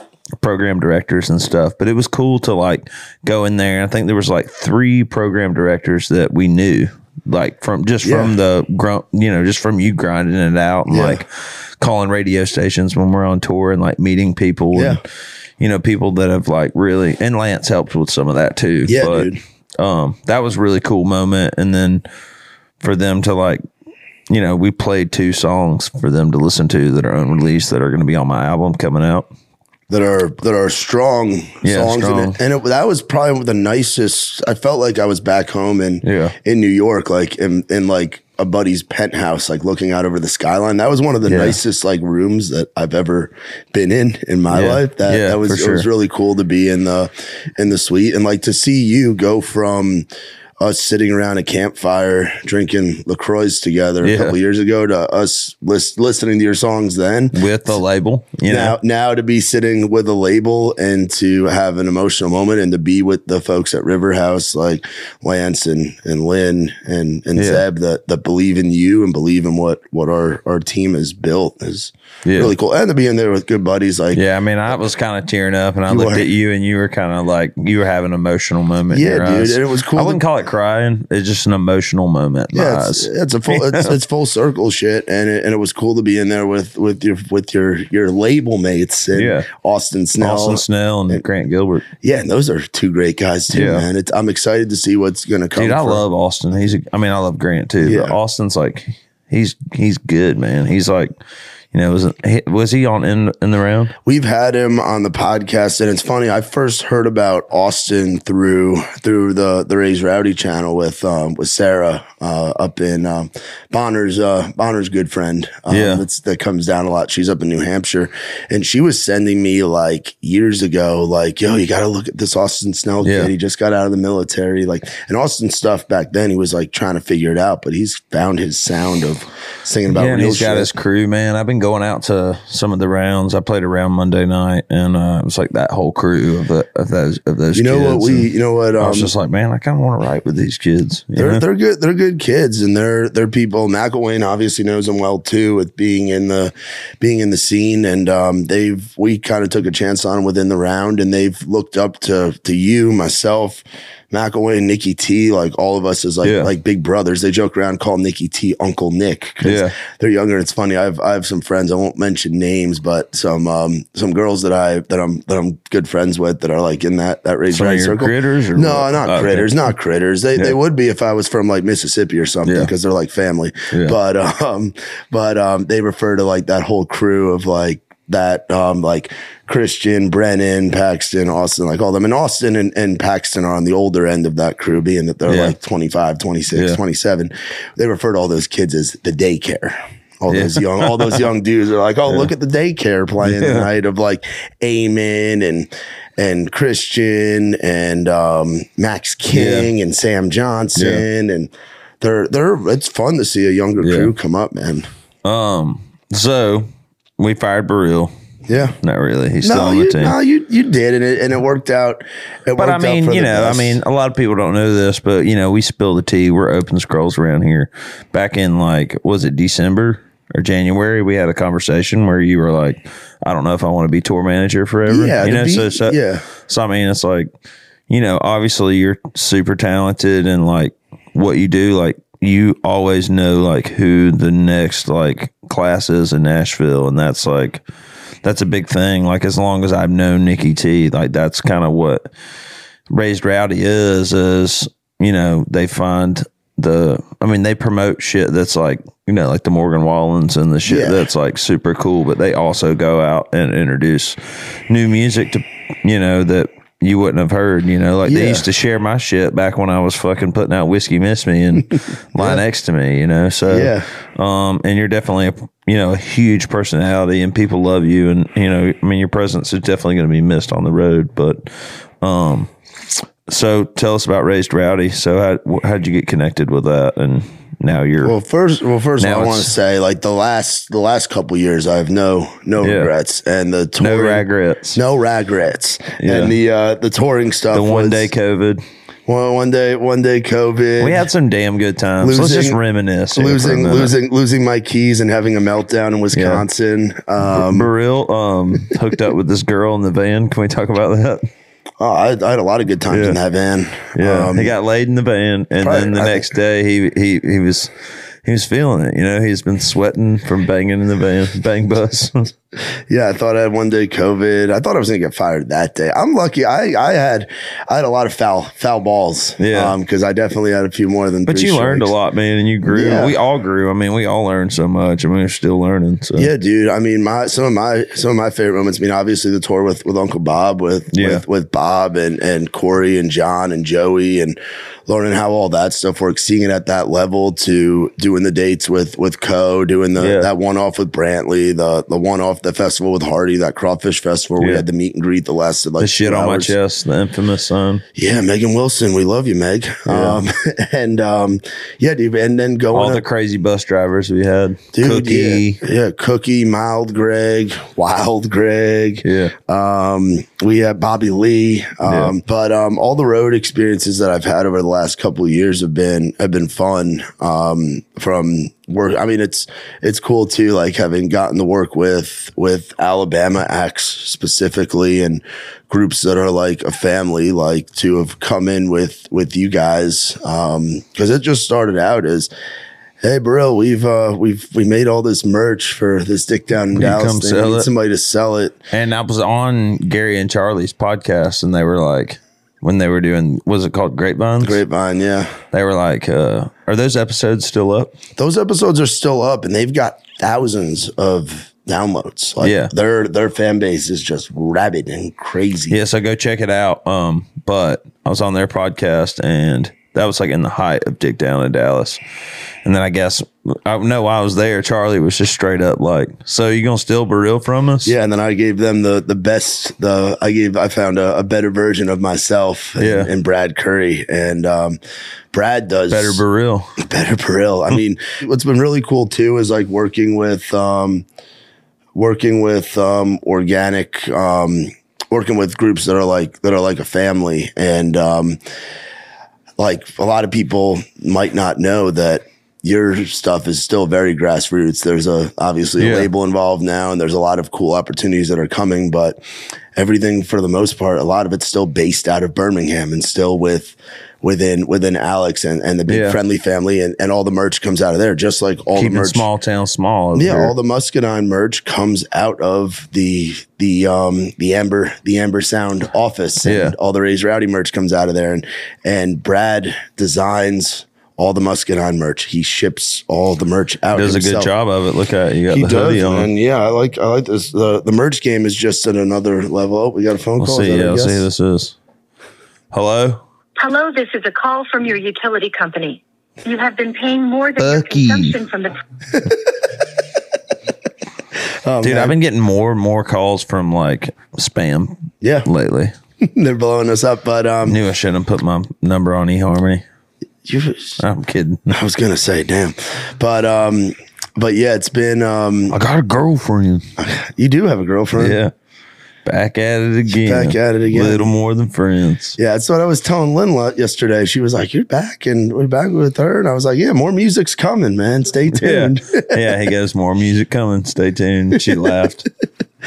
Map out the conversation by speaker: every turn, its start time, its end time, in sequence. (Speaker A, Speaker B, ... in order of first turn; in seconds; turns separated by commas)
Speaker A: 0.4-15.0, Speaker B: 8.0-8.3, Speaker B: 10.9-11.2, Speaker B: 14.7-15.0, Speaker A: 15.6-22.1, Speaker B: 18.9-19.4, Speaker A: 22.8-23.6, Speaker A: 24.3-29.3, Speaker B: 29.9-50.0, Speaker A: 31.6-32.4, Speaker A: 36.0-36.3, Speaker A: 41.2-41.6, Speaker A: 44.5-45.9, Speaker B: 50.6-57.4, Speaker A: 54.0-54.4, Speaker A: 57.3-58.8, Speaker B: 58.5-74.2, Speaker A: 67.3-67.6, Speaker A: 72.2-72.5, Speaker A: 74.1-84.0, Speaker B: 75.9-76.3, Speaker B: 78.9-80.2, Speaker B: 82.5-91.2, Speaker A: 89.1-89.5, Speaker A: 90.2-91.8, Speaker B: 92.0-96.0, Speaker A: 93.5-93.8, Speaker A: 95.5-101.2, Speaker B: 97.8-98.2, Speaker A: 101.7-103.9, Speaker B: 104.0-130.7, Speaker A: 115.7-116.0, Speaker A: 123.0-123.3, Speaker A: 129.9-141.4, Speaker B: 137.5-139.1, Speaker B: 141.2-204.9, Speaker A: 156.2-156.5, Speaker A: 159.4-159.8, Speaker A: 167.5-169.6, Speaker A: 172.4-172.7, Speaker A: 173.7-173.9, Speaker A: 185.3-185.6, Speaker A: 186.5-186.8, Speaker A: 190.3-191.2, Speaker A: 193.2-193.7, Speaker A: 199.3-199.7, Speaker A: 200.8-201.0, Speaker A: 203.8-204.1, Speaker A: 205.2-208.1, Speaker B: 208.5-208.8, Speaker A: 208.8-210.2, Speaker B: 209.4-213.8, Speaker A: 212.6-226.0, Speaker B: 224.9-226.2, Speaker A: 226.5-227.3, Speaker A: 227.9-237.6, Speaker A: 238.2-242.1, Speaker A: 242.9-254.2, Speaker B: 250.7-251.0, Speaker A: 254.7-272.5, Speaker B: 258.1-258.4, Speaker B: 263.5-263.9, Speaker A: 273.3-278.1, Speaker B: 278.0-288.1, Speaker A: 279.0-279.5, Speaker A: 282.6-282.9, Speaker A: 283.8-284.8, Speaker A: 286.0-286.4, Speaker A: 287.5-288.6, Speaker B: 289.1-291.0, Speaker A: 290.8-293.9, Speaker B: 292.0-292.6, Speaker B: 293.1-297.7, Speaker A: 296.1-296.4, Speaker A: 297.3-301.3, Speaker B: 301.8-304.5, Speaker A: 302.9-303.2, Speaker A: 303.9-307.7, Speaker B: 305.6-306.3, Speaker A: 308.2-312.3, Speaker B: 312.9-321.9, Speaker A: 319.4-319.7, Speaker A: 321.3-326.3, Speaker B: 322.6-323.1, Speaker B: 326.1-346.6, Speaker A: 330.9-331.2, Speaker A: 340.0-340.3, Speaker A: 344.4-344.6, Speaker A: 345.8-347.8, Speaker B: 347.9-353.0, Speaker A: 349.9-350.2, Speaker A: 352.7-355.6, Speaker B: 354.7-382.3, Speaker A: 359.0-359.3, Speaker A: 361.8-362.1, Speaker B: 383.0-388.6, Speaker A: 386.7-387.7, Speaker A: 388.7-394.6, Speaker B: 394.4-395.3, Speaker A: 395.5-397.9, Speaker B: 398.2-405.8, Speaker A: 402.4-402.7, Speaker A: 405.7-412.0, Speaker A: 412.6-417.9, Speaker B: 417.8-424.8, Speaker A: 422.8-423.1, Speaker B: 425.3-426.2, Speaker A: 425.9-426.7, Speaker B: 426.8-431.0, Speaker B: 431.9-438.4, Speaker B: 439.6-449.2, Speaker A: 445.8-446.1, Speaker B: 449.8-459.3, Speaker A: 455.9-456.2, Speaker A: 458.7-460.5, Speaker B: 460.1-474.5, Speaker A: 466.4-466.8, Speaker A: 473.9-476.3, Speaker B: 475.5-481.2, Speaker A: 480.4-481.7, Speaker A: 482.7-483.2, Speaker C: 483.6-488.8, Speaker A: 487.6-488.4, Speaker B: 491.6-492.2, Speaker A: 491.8-495.9, Speaker B: 495.2-495.5, Speaker B: 496.2-497.8, Speaker A: 497.6-499.8, Speaker B: 500.4-501.0, Speaker A: 501.0-501.7, Speaker B: 501.7-505.8, Speaker A: 505.7-506.9, Speaker B: 507.0-508.4, Speaker A: 508.1-508.5, Speaker A: 509.2-512.4, Speaker B: 510.1-511.3, Speaker B: 512.4-519.4, Speaker A: 518.5-522.2